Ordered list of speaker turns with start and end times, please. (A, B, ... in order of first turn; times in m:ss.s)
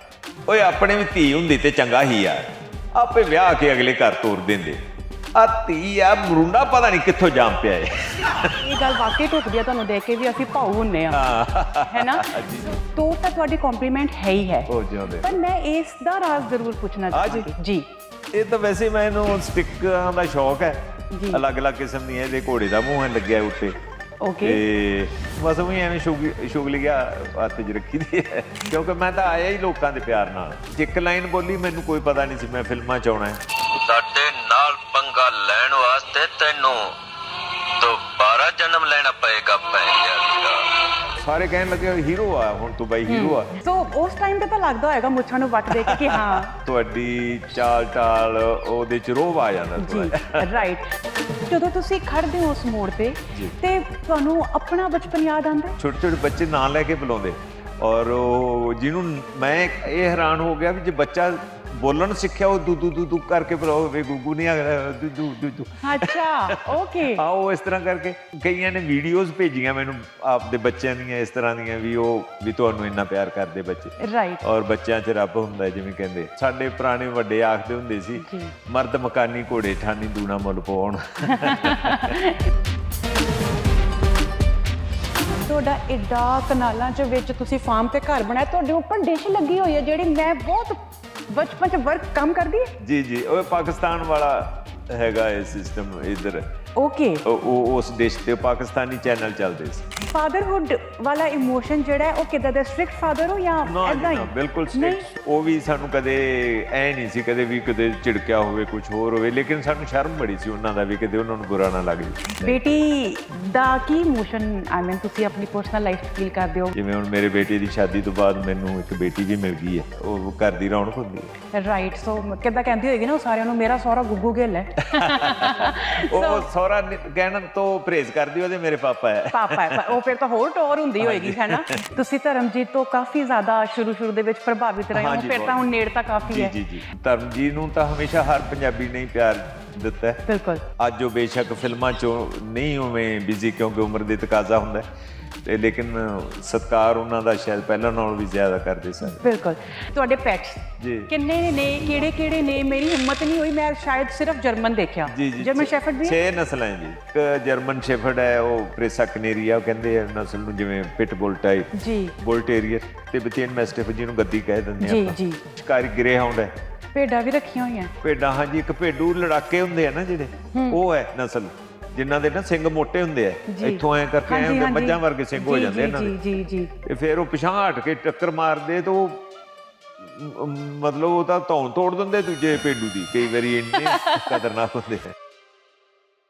0:00.5-0:04.8 A
0:05.4-0:08.6 A
0:08.5-0:11.2 B
0:11.1-0:12.8 A
0:11.9-0:14.7 B
0:14.7-0:15.4 A
0:15.2-0:17.9 B
0:17.1-0:17.5 A
0:18.3-0:23.8 A
0:21.1-0:21.4 B
0:24.2-0:24.6 B
0:24.4-0:35.4 A
0:33.9-0:36.8 C
0:37.8-0:40.6 C
0:38.0-0:40.2 A
0:41.2-0:43.6 A
0:43.1-0:46.5 B
0:45.8-0:50.6 A
0:49.8-0:50.9 B
0:51.4-0:55.8 B
0:53.3-0:53.6 A
0:55.8-1:22.2 A
1:05.8-1:07.2 B
1:14.0-1:14.4 B
1:18.2-1:18.5 B
1:21.3-1:22.4 B
1:25.4-1:30.8 B
1:31.3-1:32.7 B
1:32.8-1:36.4 A
1:36.8-1:37.2 B
1:37.2-1:39.9 A
1:40.1-1:45.0 B
1:43.6-1:52.8 A
1:52.4-1:56.7 B
1:56.7-2:01.3 A
2:01.5-2:06.5 B
2:04.8-2:10.0 A
2:09.3-2:16.5 B
2:11.0-2:11.9 A
2:14.9-2:15.6 A
2:16.2-2:20.2 A
2:20.3-2:20.6 B
2:20.8-2:24.8 A
2:25.4-2:29.2 A
2:29.0-2:36.2 B
2:30.8-2:31.1 A
2:35.1-2:46.5 A
2:41.7-2:42.1 B
2:44.8-2:45.4 B
2:46.9-2:47.9 B
2:48.0-2:56.2 A
2:50.5-2:50.8 B
2:53.5-2:56.7 B
2:56.8-2:59.3 A
3:00.0-3:05.2 A
3:03.8-3:04.4 B